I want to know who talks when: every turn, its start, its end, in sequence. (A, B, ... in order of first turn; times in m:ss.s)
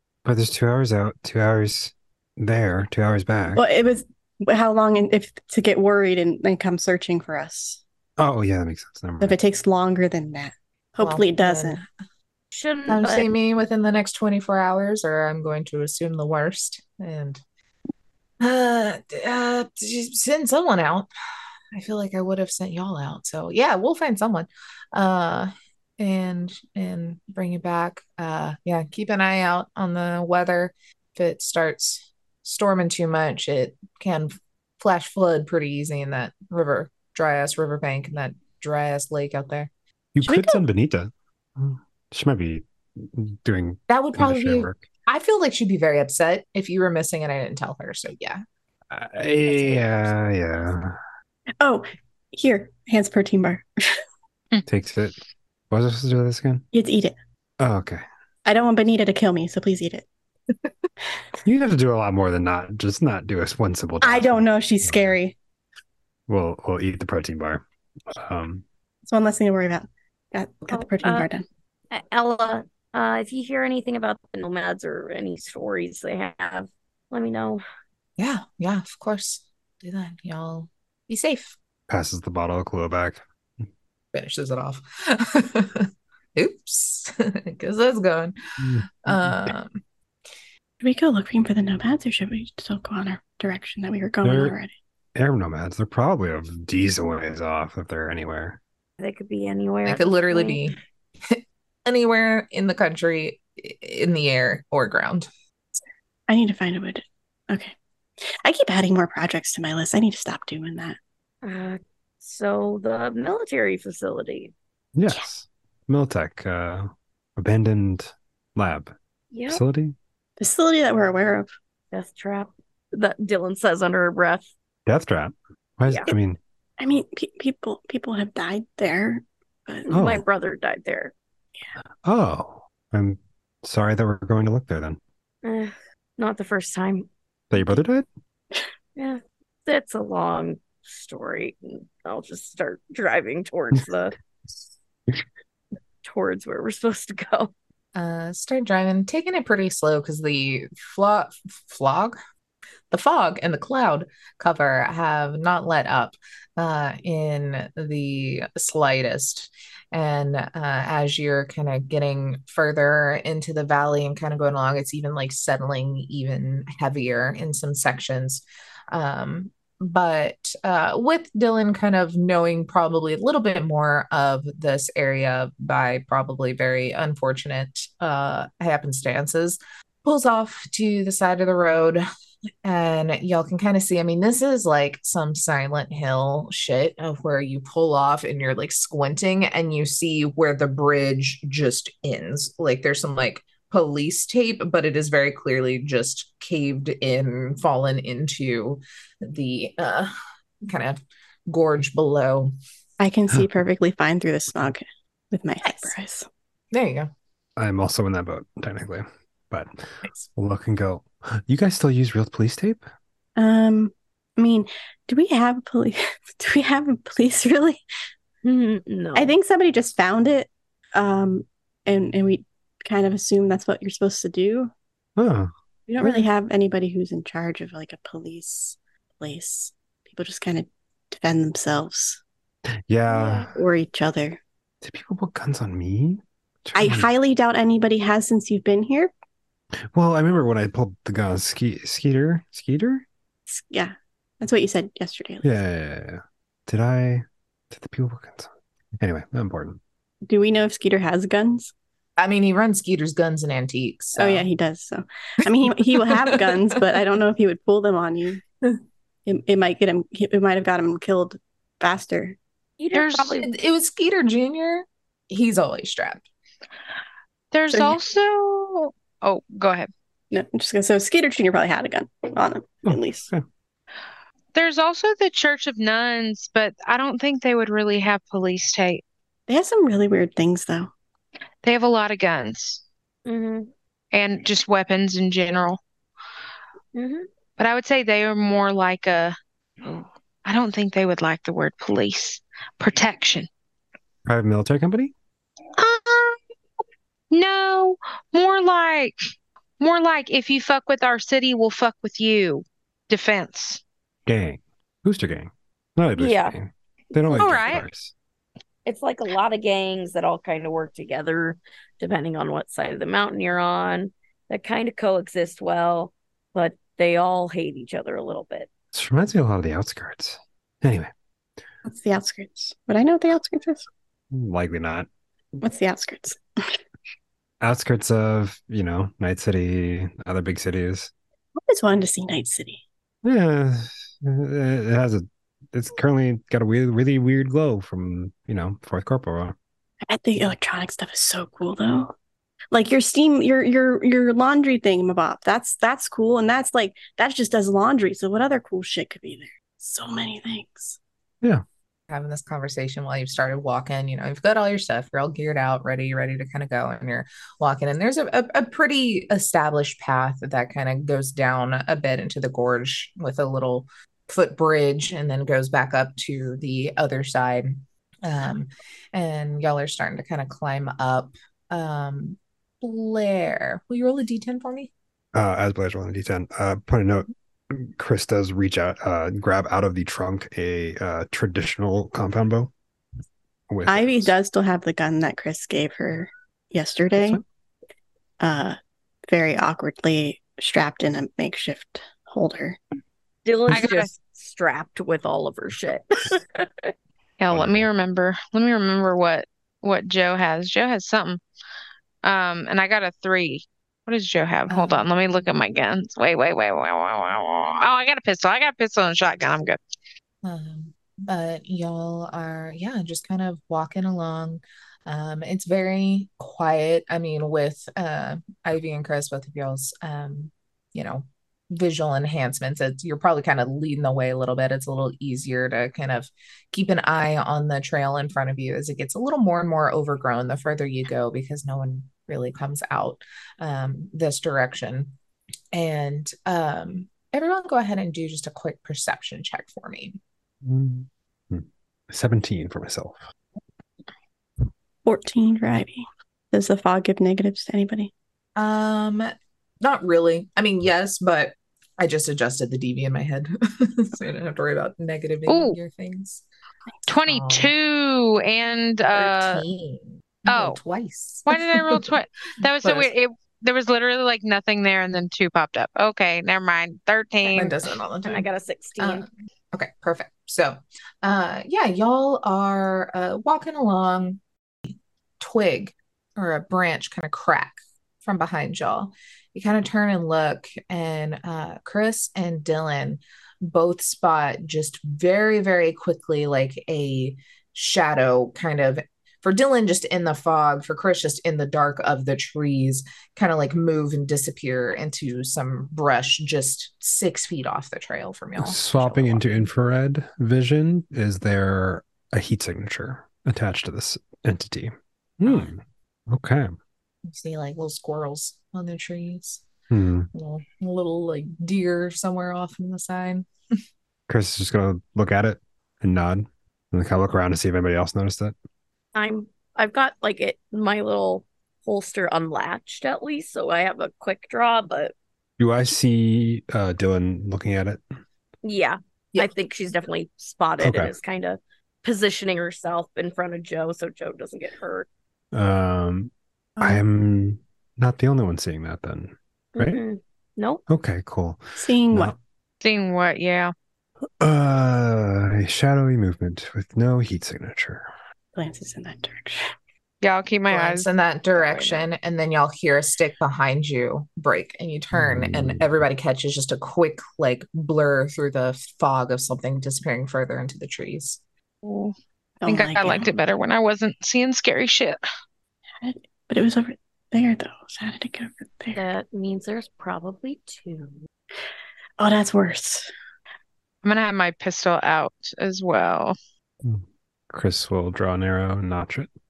0:00.2-0:03.6 A
0:03.6-0:07.8 B
0:08.2-0:09.4 A
0:09.2-0:11.8 B
0:11.0-0:11.9 C
0:12.5-0:13.3 D
0:12.9-0:17.4 C
0:18.4-0:21.1 C
0:21.7-0:39.7 C
0:40.1-0:44.8 A
0:40.2-0:40.6 B
0:43.9-0:48.4 C
0:48.9-0:51.0 A
0:49.2-0:50.1 C
0:51.6-0:54.0 B
0:54.7-0:55.2 A
0:55.7-0:56.7 A
0:56.7-0:57.2 B
0:57.6-0:58.0 A
0:58.5-1:00.1 B
1:01.4-1:05.1 A
1:04.0-1:05.4 B
1:06.3-1:08.6 A
1:09.1-1:11.5 B
1:10.7-1:11.3 D
1:11.9-1:17.6 D
1:18.2-1:21.6 C
1:21.9-1:23.7 A
1:24.1-1:28.4 C
1:28.6-1:29.5 A
1:29.0-1:29.8 C
1:30.8-1:34.7 B
1:34.2-1:34.6 A
1:35.2-1:38.6 A
1:39.0-1:40.6 D
1:39.8-1:45.3 C
1:45.8-1:51.0 B
1:51.4-1:54.5 D
1:55.0-1:58.9 A
1:59.3-1:59.6 D
1:59.5-2:00.0 A
2:00.4-2:01.5 B
2:01.9-2:04.5 D
2:04.9-2:06.4 A
2:05.9-2:06.1 D
2:06.8-2:09.9 B
2:09.9-2:11.1 D
2:09.9-2:10.2 A
2:12.0-2:15.0 A
2:15.4-2:17.1 D
2:17.5-2:18.1 A
2:19.0-2:24.2 D
2:26.0-2:27.5 D
2:28.0-2:32.2 C
2:32.9-3:02.0 C
3:02.6-3:20.1 C
3:20.6-3:22.5 C
3:23.0-3:26.3 B
3:26.7-3:27.1 C
3:27.6-3:32.8 A
3:33.4-3:37.8 B
3:38.4-3:39.4 D
3:39.2-3:44.7 B
3:45.2-3:46.3 A
3:45.9-3:52.2 B
3:52.9-3:53.5 A
3:53.1-3:53.5 D
3:53.4-3:54.4 B
3:54.8-3:57.1 A
3:56.8-3:59.1 B
3:59.9-4:03.0 A
4:03.5-4:05.5 B
4:05.4-4:09.8 A
4:10.3-4:11.7 B
4:12.2-4:14.5 C
4:14.2-4:18.4 B
4:15.6-4:17.0 C
4:19.3-4:22.4 B
4:22.8-4:23.4 D
4:22.9-4:23.4 E
4:23.3-4:26.2 C
4:27.5-4:29.9 E
4:27.7-4:28.0 B
4:30.3-4:33.3 B
4:32.8-4:33.4 A
4:34.5-4:39.0 E
4:39.5-4:40.9 B
4:41.6-4:42.8 E
4:43.3-4:43.7 D
4:44.1-4:45.8 E
4:46.9-4:47.3 D
4:47.6-4:53.5 E
4:54.3-4:55.1 A
4:55.8-4:56.4 E
4:57.3-4:59.2 E
4:59.8-5:03.8 E
5:04.3-5:08.1 A
5:06.2-5:06.6 D
5:07.4-5:07.8 E
5:08.8-5:18.7 D
5:18.9-5:21.1 A
5:21.8-5:23.9 B
5:24.3-5:25.1 A
5:25.6-5:26.8 B
5:27.6-5:31.1 A
5:31.6-5:32.8 B
5:33.2-5:39.6 A
5:40.0-5:42.1 B
5:42.7-5:51.0 B
5:52.1-6:14.9 C
6:15.3-6:22.7 A
6:23.7-6:24.3 A
6:23.9-6:27.4 B
6:27.1-6:27.4 A
6:28.4-6:28.8 B
6:29.3-6:32.8 B
6:33.4-6:36.9 D
6:33.7-6:34.1 E
6:37.4-6:41.4 E
6:37.5-6:37.9 A
6:42.2-6:49.8 E
6:44.7-6:45.1 C
6:50.4-7:15.1 C
7:15.7-7:20.2 C
7:20.6-7:23.2 A
7:25.0-7:28.1 B
7:28.6-7:29.3 C
7:29.8-7:36.4 C
7:35.5-7:35.8 E
7:37.1-7:39.6 E
7:37.3-7:37.7 C
7:39.1-7:42.2 C
7:40.5-7:40.8 E
7:41.5-7:47.8 E
7:42.8-7:43.1 C
7:47.4-7:48.5 C
7:48.2-7:49.3 D
7:49.0-7:54.4 C
7:55.4-8:19.7 C
8:18.6-8:26.7 A
8:25.4-8:25.7 C
8:27.2-8:29.6 C
8:29.9-8:30.3 A
8:30.3-8:33.5 C
8:34.3-8:38.6 A
8:39.2-8:45.1 D
8:45.6-8:48.1 A
8:48.6-8:55.1 D
8:50.8-8:51.1 A
8:55.5-9:00.0 A
8:56.8-8:57.0 B
8:59.8-9:00.8 D
9:00.9-9:02.4 A
9:01.8-9:02.3 B
9:02.8-9:03.7 E
9:04.4-9:08.1 A
9:08.6-9:09.7 B
9:10.2-9:12.0 E
9:10.7-9:21.4 C
9:15.1-9:15.9 A
9:21.8-9:25.2 E
9:22.6-9:23.3 B
9:26.0-9:29.0 B
9:28.9-9:31.2 D
9:32.2-9:33.1 B
9:34.0-9:36.4 E
9:36.8-9:39.3 A